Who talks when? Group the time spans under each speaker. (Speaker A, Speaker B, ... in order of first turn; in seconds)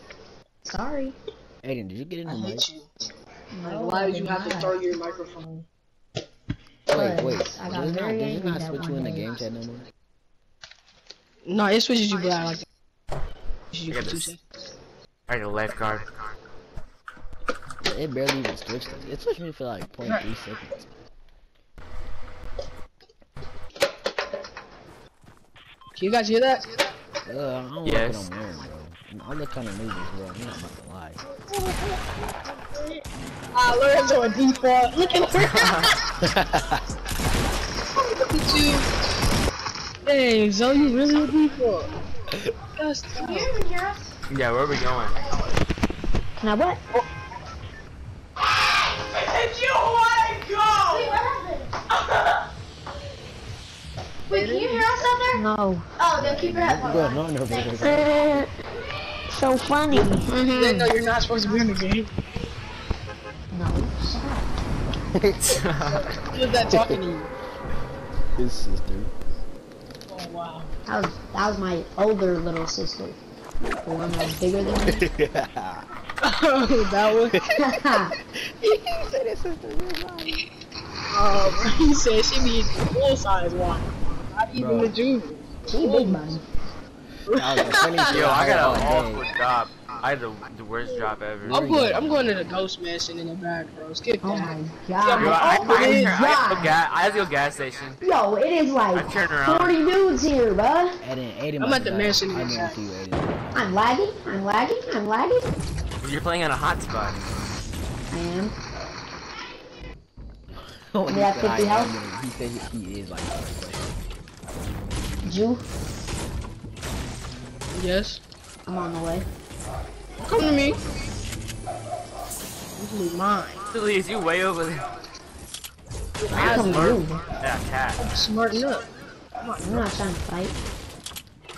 Speaker A: 0.7-1.2, 3.5-4.8, 6.9-9.3, 46.4-46.8, 55.3-56.0, 57.7-58.5, 59.3-60.9, 63.5-64.5, 70.9-73.2, 73.8-75.0, 77.5-78.1, 85.7-86.4, 94.2-96.8, 98.0-101.0, 103.5-105.5, 108.1-108.5, 111.1-111.9, 115.2-115.6, 118.7-119.3, 126.3-127.2, 129.6-130.6
Speaker B: 1.6-2.7, 6.9-9.8, 17.8-20.8, 27.2-31.2, 36.2-36.8, 49.7-50.5, 56.2-58.5, 65.1-65.6, 66.6-67.0, 68.4-69.1, 74.9-75.9, 77.3-80.4, 84.5-84.9, 87.3-89.3, 91.4-92.5, 101.0-103.5, 110.5-113.9
Speaker C: 2.2-2.9, 3.6-5.7, 11.4-12.6, 13.7-14.4, 25.9-26.7, 31.5-31.9, 33.5-36.0, 38.2-38.9, 40.0-41.9, 42.8-43.5, 54.3-55.0, 59.9-62.1, 66.0-67.3, 70.1-70.7, 76.2-77.4, 81.1-86.4, 87.3-88.5, 91.5-96.2, 101.6-102.8, 117.7-118.2, 120.2-120.8, 122.8-123.7, 126.2-126.9, 128.0-128.9, 129.4-129.9
Speaker D: 13.9-14.3, 15.3-16.1, 27.8-28.3, 35.4-35.9, 44.3-45.2, 65.4-66.0, 88.1-91.7, 95.2-98.0, 98.9-99.8, 106.0-107.2, 123.7-124.9, 126.3-128.0
Speaker E: 43.2-44.0, 50.8-51.8, 54.3-55.4, 56.0-57.8